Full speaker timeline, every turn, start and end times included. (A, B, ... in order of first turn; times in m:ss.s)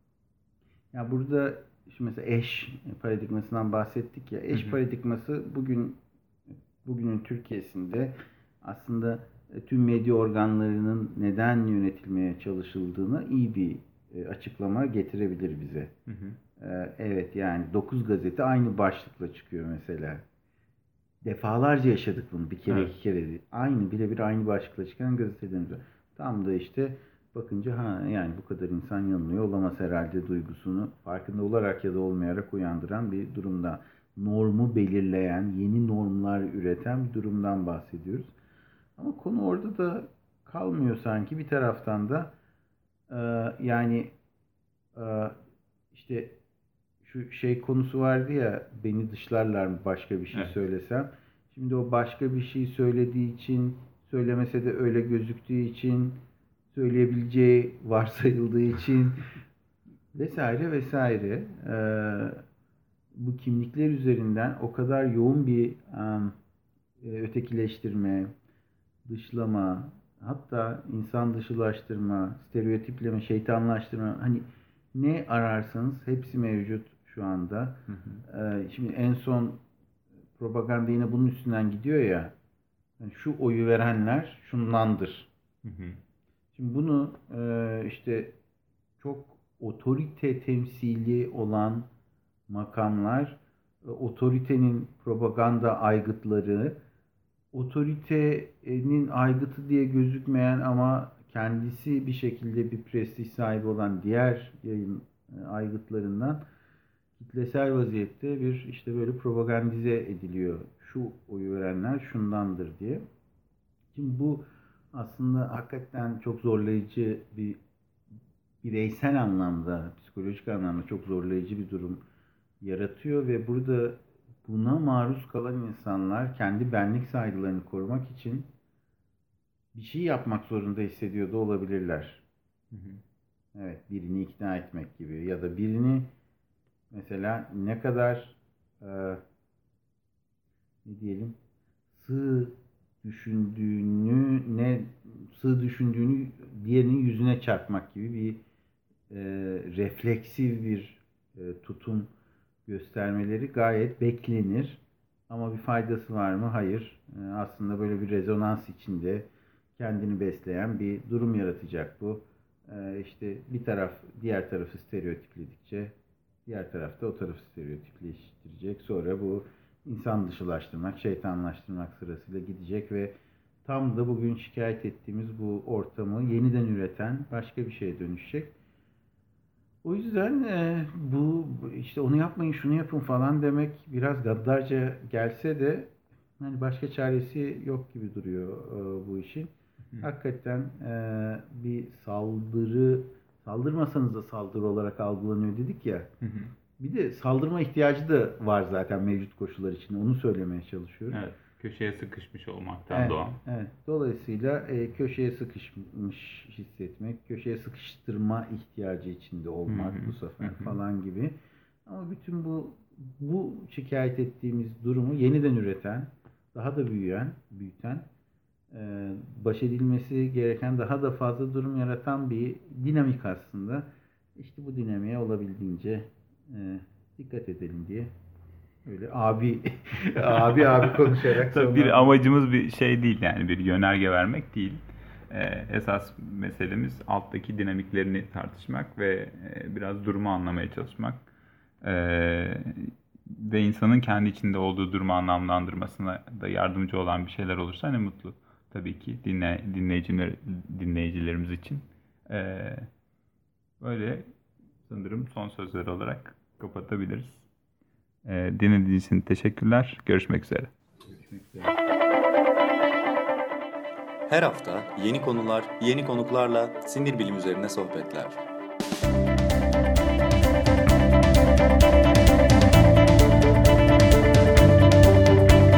0:00.9-0:06.0 A
0:06.8-0:15.9 A
0:16.1-0:16.4 B
0:16.6-0:20.2 A
0:21.2-0:38.3 A
0:39.0-0:42.3 A
0:43.1-0:44.1 A
0:45.0-0:45.4 A
0:45.9-0:46.4 A
0:47.0-0:59.2 A
1:00.1-1:02.4 A
1:03.1-1:06.4 A
1:07.0-1:08.3 A
1:09.1-1:19.6 A
1:17.9-1:18.2 B
1:20.4-1:22.3 A
1:23.0-1:25.3 A
1:25.6-1:26.0 B
1:26.6-1:28.4 A
1:29.0-1:31.9 A
1:32.5-1:36.8 A
1:37.5-1:46.4 A
1:47.2-1:53.0 A
1:53.9-1:57.6 A
1:58.6-2:02.0 A
2:02.6-2:08.5 A
2:09.7-2:12.2 A
2:12.7-2:13.0 B
2:13.6-2:16.1 A
2:16.9-2:19.2 A
2:20.8-2:21.4 A
2:21.9-2:28.4 A
2:29.1-2:32.1 A
2:32.7-2:45.9 A
2:46.5-2:58.5 A
2:59.8-3:16.1 A
3:16.2-3:16.5 B
3:16.8-3:21.2 A
3:21.1-3:23.4 B
3:22.9-3:38.1 A
3:29.7-3:30.8 B
3:38.7-3:48.1 A
3:48.8-3:52.1 A
3:50.5-4:01.3 B
4:01.8-4:12.9 B
4:13.8-4:14.3 B
4:14.9-4:17.5 B
4:18.2-4:20.7 B
4:21.1-4:21.7 A
4:24.3-4:28.4 C